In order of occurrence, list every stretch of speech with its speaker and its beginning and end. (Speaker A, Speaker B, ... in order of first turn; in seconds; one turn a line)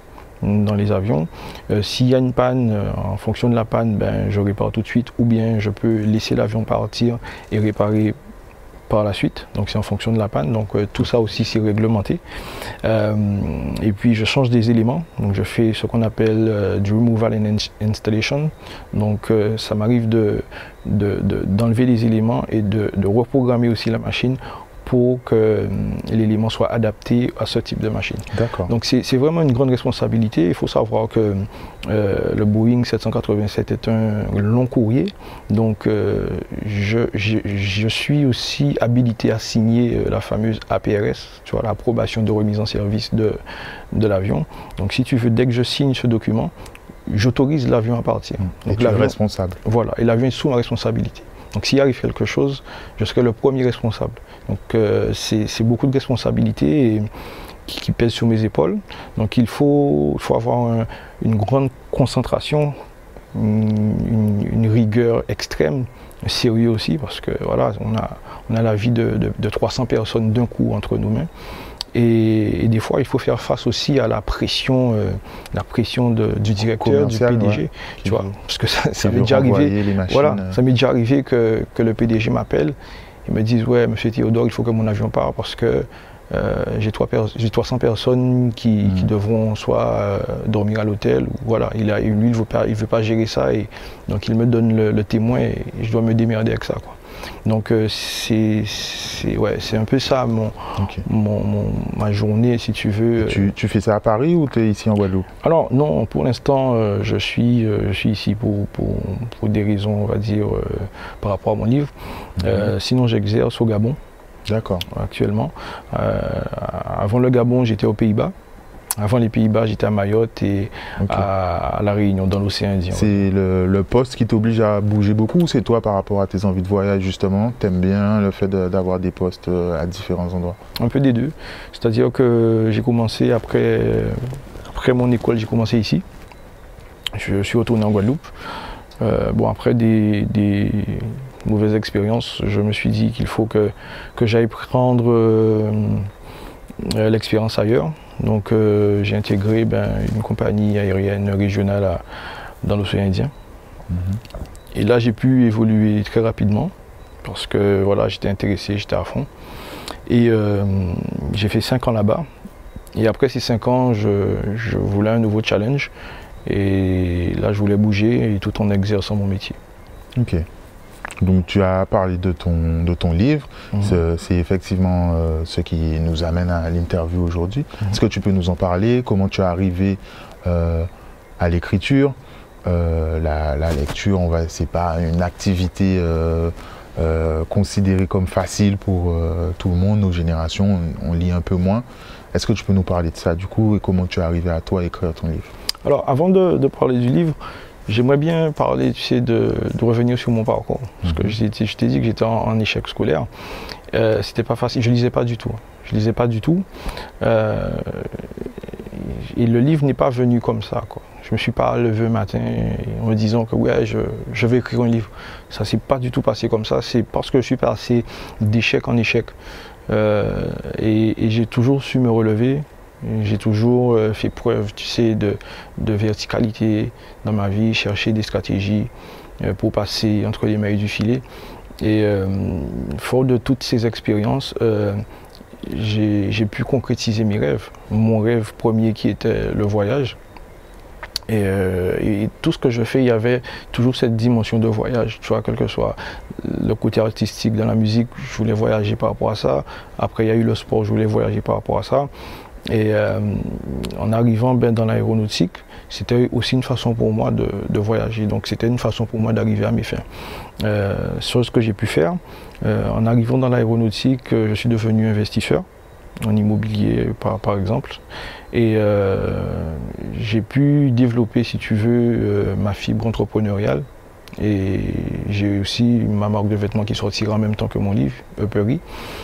Speaker A: 0.4-8.2
Speaker A: 8.9-12.2
Speaker A: 12.8-43.4
Speaker B: 28.3-28.7
Speaker A: 43.9-46.5
Speaker A: 47.1-57.1
Speaker B: 48.5-49.6
Speaker A: 57.7-62.7
Speaker A: 63.3-71.3
Speaker A: 71.9-103.5
Speaker B: 76.7-78.3
Speaker B: 79.0-80.6
Speaker B: 100.8-101.0
Speaker B: 103.2-105.3
Speaker A: 105.4-114.0
Speaker B: 112.4-112.7
Speaker B: 114.5-114.9
Speaker A: 114.9-118.3
Speaker A: 119.0-123.2
Speaker B: 121.0-121.3
Speaker B: 122.9-130.6
Speaker A: 130.8-136.0
Speaker A: 137.1-138.3
Speaker A: 139.0-146.1
Speaker A: 146.8-152.0
Speaker A: 152.6-153.3
Speaker B: 153.9-154.2
Speaker A: 154.7-156.7
Speaker A: 157.2-159.3
Speaker A: 160.1-162.3
Speaker A: 162.9-165.9
Speaker A: 166.4-169.6
Speaker B: 170.2-170.4
Speaker B: 171.2-195.5
Speaker A: 173.7-174.0
Speaker A: 195.8-203.3
Speaker B: 201.1-201.3
Speaker A: 203.9-206.7
Speaker A: 207.2-219.3
Speaker A: 219.9-231.2
Speaker A: 231.8-235.0
Speaker A: 235.6-240.2
Speaker A: 241.3-252.1
Speaker A: 252.7-260.0
Speaker A: 260.6-265.6
Speaker A: 266.2-273.9
Speaker A: 274.4-278.8